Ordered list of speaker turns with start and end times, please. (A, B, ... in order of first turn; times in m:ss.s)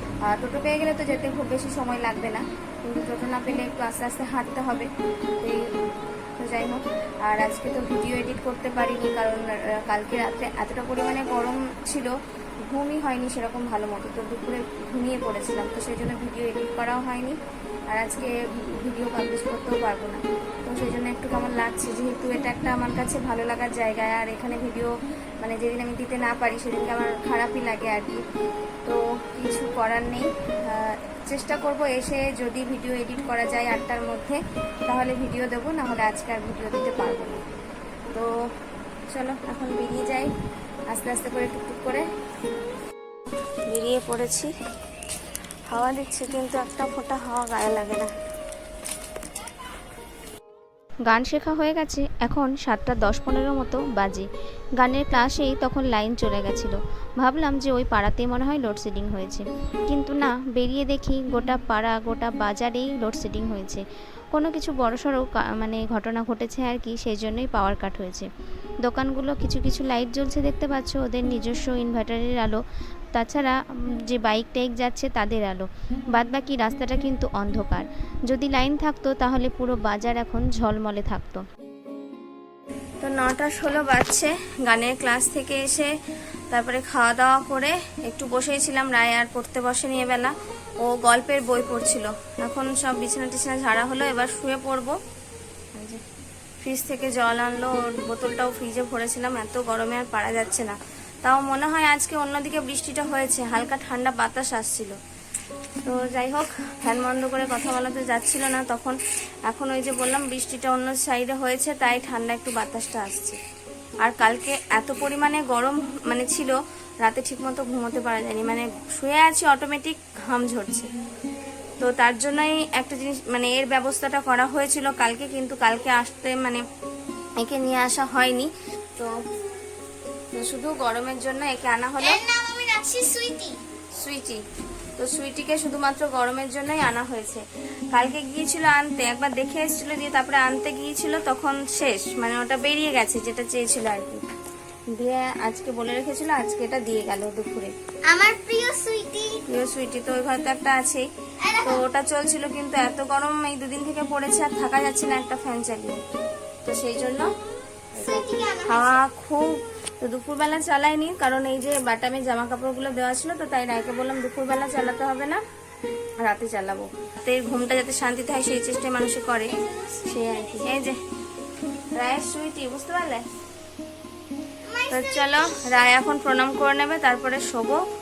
0:00.2-0:05.8 A
0:06.4-0:12.1 A
0:12.6-0:28.2 A
0:28.8-0:37.4 A
0:39.1-0:40.3 A
0:40.9-0:42.1 A
0:43.7-0:44.5 A
0:45.7-0:48.1 A
0:51.0-1:08.3 B
1:08.8-1:12.6 B
1:13.1-1:21.4 B
1:23.0-1:25.9 A
1:26.5-1:35.0 A
1:35.7-1:36.0 A
1:36.6-1:45.0 A
1:45.8-1:53.4 A
1:54.0-2:00.9 A
2:01.8-2:06.6 A
2:07.4-2:09.2 A
2:10.3-2:12.2 A
2:12.0-2:13.6 C
2:13.9-2:14.4 A
2:15.0-2:24.2 A
2:24.9-2:27.7 A
2:28.1-2:29.4 C
2:29.5-2:31.1 A
2:31.4-2:31.8 C
2:31.6-2:36.0 A
2:36.6-2:37.3 A
2:37.9-2:45.4 A
2:38.0-2:39.0 C
2:46.2-2:51.0 A
2:49.5-2:50.9 C
2:51.9-2:53.2 A
2:54.6-2:55.8 C
2:54.9-2:57.8 A